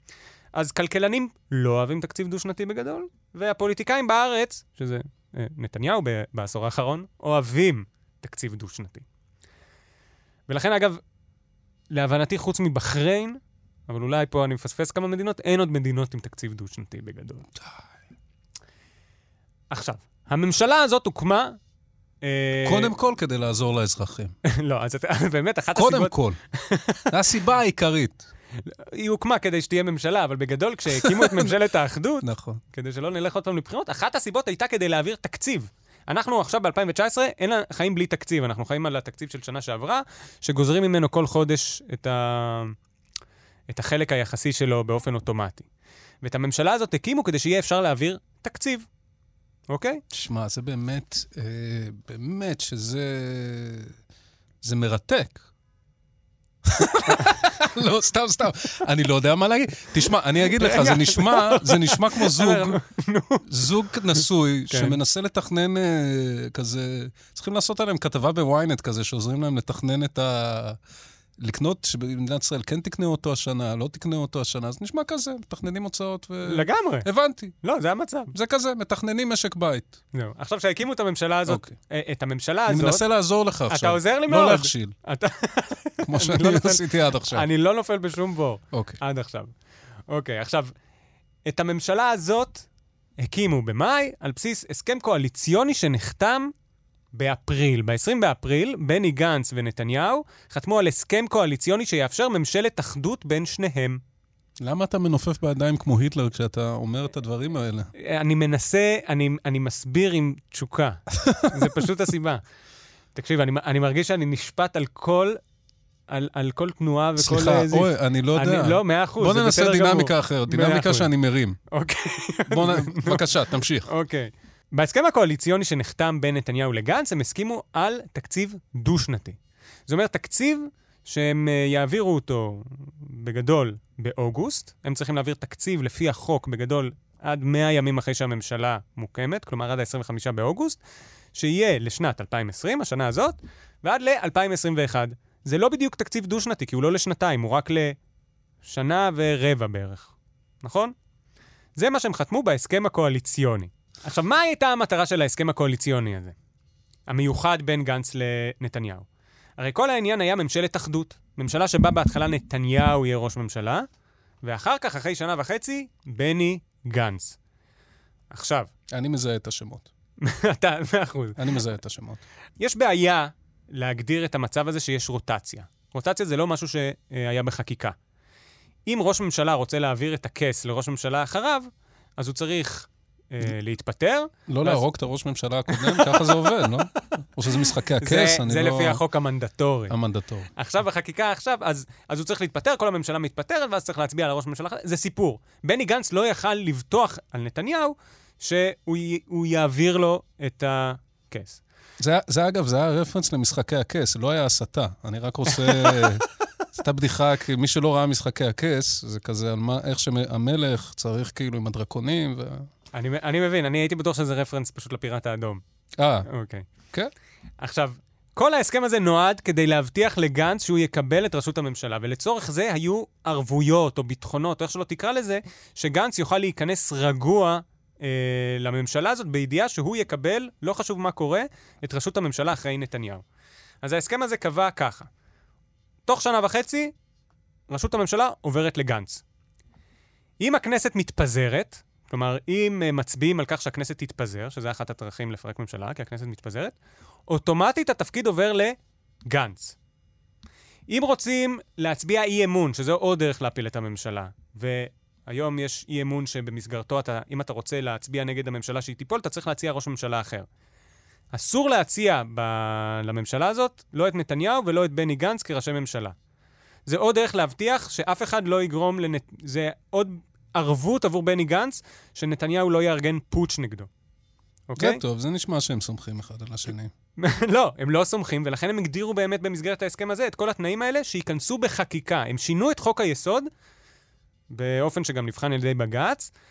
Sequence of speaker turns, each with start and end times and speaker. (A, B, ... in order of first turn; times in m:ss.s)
0:00.5-0:09.0 A
0:10.5-0:11.0 A
0:11.9-0:17.4 A
0:19.7-0:21.6 A
0:22.2-0:22.9 A
0:22.6-0:24.3 B
0:24.4-0:27.1 A
0:25.7-0:26.4 B
0:27.1-0:28.2 B
0:28.6-0:42.7 A
0:31.0-0:31.5 B
0:32.2-0:32.6 B
0:43.7-0:45.7 A
0:46.2-0:48.8 A
0:49.7-0:50.0 A
0:50.1-0:53.9 B
0:54.6-0:55.4 B
0:56.6-1:02.8 B
1:00.5-1:03.5 A
1:03.4-1:10.8 B
1:04.2-1:05.0 A
1:11.4-1:17.6 B
1:16.4-1:17.1 A
1:17.6-1:18.3 A
1:18.3-1:20.0 B
1:20.1-1:23.0 A
1:21.5-1:21.7 B
1:22.7-1:24.9 B
1:23.7-1:29.5 A
1:26.0-1:27.4 B
1:28.7-1:29.0 B
1:30.1-1:30.7 A
1:31.4-1:32.6 A
1:33.2-1:36.5 A
1:37.1-1:44.0 A
1:44.6-1:47.9 B
1:47.9-1:52.4 A
1:51.2-1:51.8 B
1:53.1-1:55.4 A
1:56.1-2:01.1 A
1:57.2-2:01.6 B
2:01.7-2:03.2 A
2:02.5-2:03.9 B
2:03.9-2:20.8 A
2:21.3-2:28.0 A
2:28.6-2:30.9 A
2:31.8-2:36.3 A
2:37.1-2:39.1 A
2:39.6-2:43.8 A
2:44.4-2:47.4 A
2:48.3-2:48.7 A
2:48.9-2:49.9 B
2:50.2-2:51.4 A
2:51.4-2:52.2 B
2:52.6-2:57.9 A
2:58.8-3:04.8 A
3:04.5-3:09.0 B
3:05.7-3:06.6 A
3:08.0-3:09.9 A
3:09.9-3:10.5 B
3:10.5-3:21.6 A
3:22.0-3:32.7 B
3:25.6-3:26.1 A
3:32.9-3:35.6 A
3:36.0-3:36.3 B
3:36.3-3:36.7 A
3:37.6-3:53.2 A
3:53.8-3:55.1 A
3:56.0-3:56.9 A
3:57.7-3:59.2 A
4:00.4-4:06.7 A
4:07.3-4:08.8 A
4:09.3-4:09.8 A
4:10.9-4:20.5 A
4:21.3-4:26.1 A
4:26.8-4:33.9 A
4:34.7-4:35.0 A
4:34.8-4:36.9 B
4:37.2-4:43.5 A
4:44.5-4:46.3 A